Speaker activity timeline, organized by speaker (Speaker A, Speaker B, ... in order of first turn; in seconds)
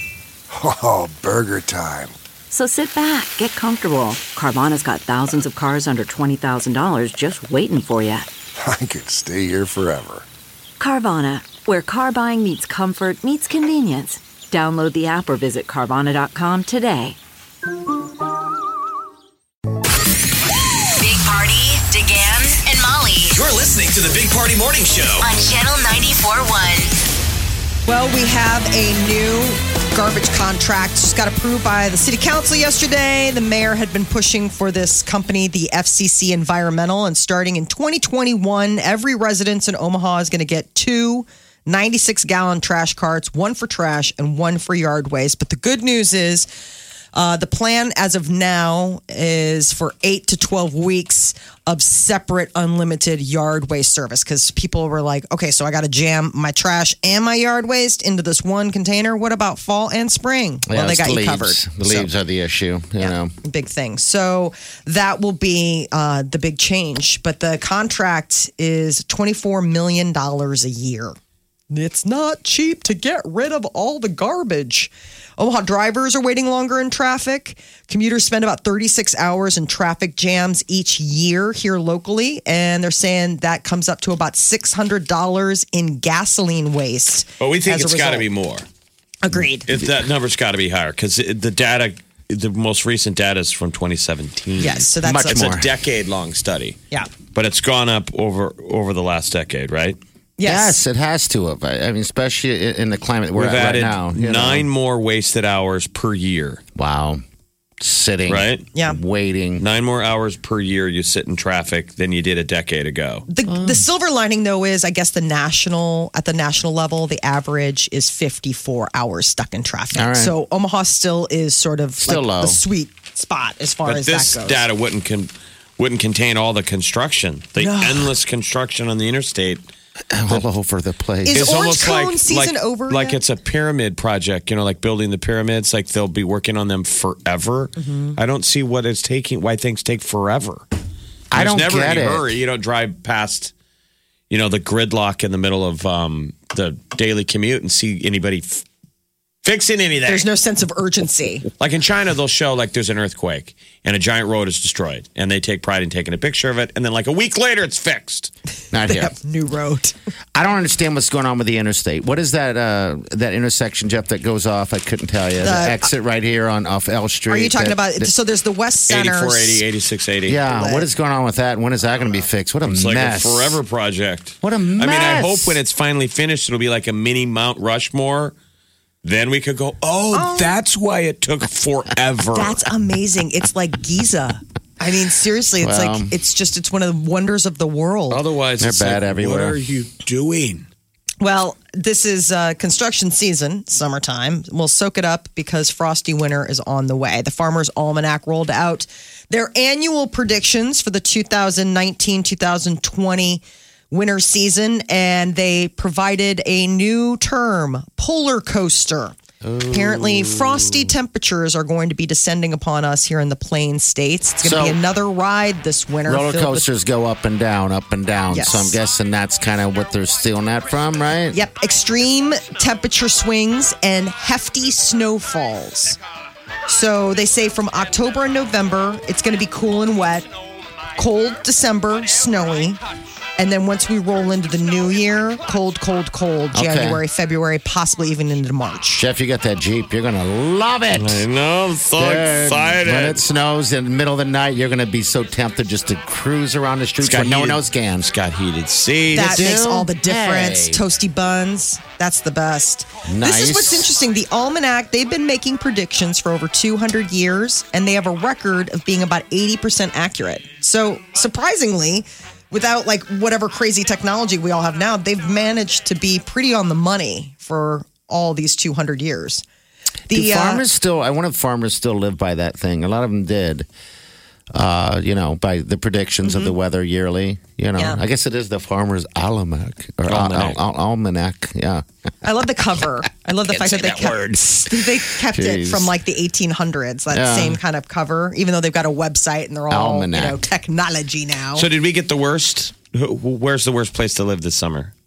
Speaker A: 0.5-2.1, 8.6-10.2
Speaker B: 2.5-8.3, 10.8-17.2
Speaker C: 21.0-23.4, 25.2-26.9
Speaker D: 23.3-25.3
Speaker E: 27.9-46.5, 47.1-62.1, 63.0-71.2, 71.7-88.2, 89.2-89.7, 94.6-95.5, 100.4-100.8, 113.3-124.6, 127.6-128.1, 131.2-133.2, 137.8-138.2, 150.1-151.4, 158.8-159.9, 165.4-165.9, 167.3-169.6, 170.5-170.8, 180.1-180.6, 182.3-188.2, 191.2-209.1, 209.7-216.7, 218.3-218.8, 221.3-226.0, 226.7-230.3, 230.9-232.8, 233.4-239.0, 249.1-269.4, 270.1-270.6, 276.2-276.5, 277.8-278.0, 282.2-291.7
Speaker F: 60.7-63.3, 95.0-95.7, 100.4-104.7, 106.8-107.2, 107.8-109.6, 113.5-113.8, 119.9-120.3, 122.0-122.6, 130.1-131.5, 141.3-142.3, 158.7-159.1, 160.3-168.1, 170.3-173.6, 174.4-175.6, 185.6-186.1, 188.6-189.6, 209.4-210.9, 214.4-214.8, 216.0-221.4, 236.5-237.0, 239.0-241.2, 241.9-248.1, 249.2-250.8, 253.1-253.9, 270.1-273.7, 274.5-281.9, 283.6-285.9, 287.1-287.6, 289.7-290.4
Speaker G: 87.4-88.7, 89.7-96.8, 97.3-100.0, 103.3-106.6, 108.3-108.7, 109.6-113.2, 123.8-129.7, 131.3-140.6, 141.3-143.5, 144.3-148.6, 149.4-150.2, 151.6-158.3, 168.9-170.4, 172.7-178.3, 179.0-182.6, 188.1-190.7, 240.9-243.2, 247.0-249.4, 280.1-280.6, 291.6-294.9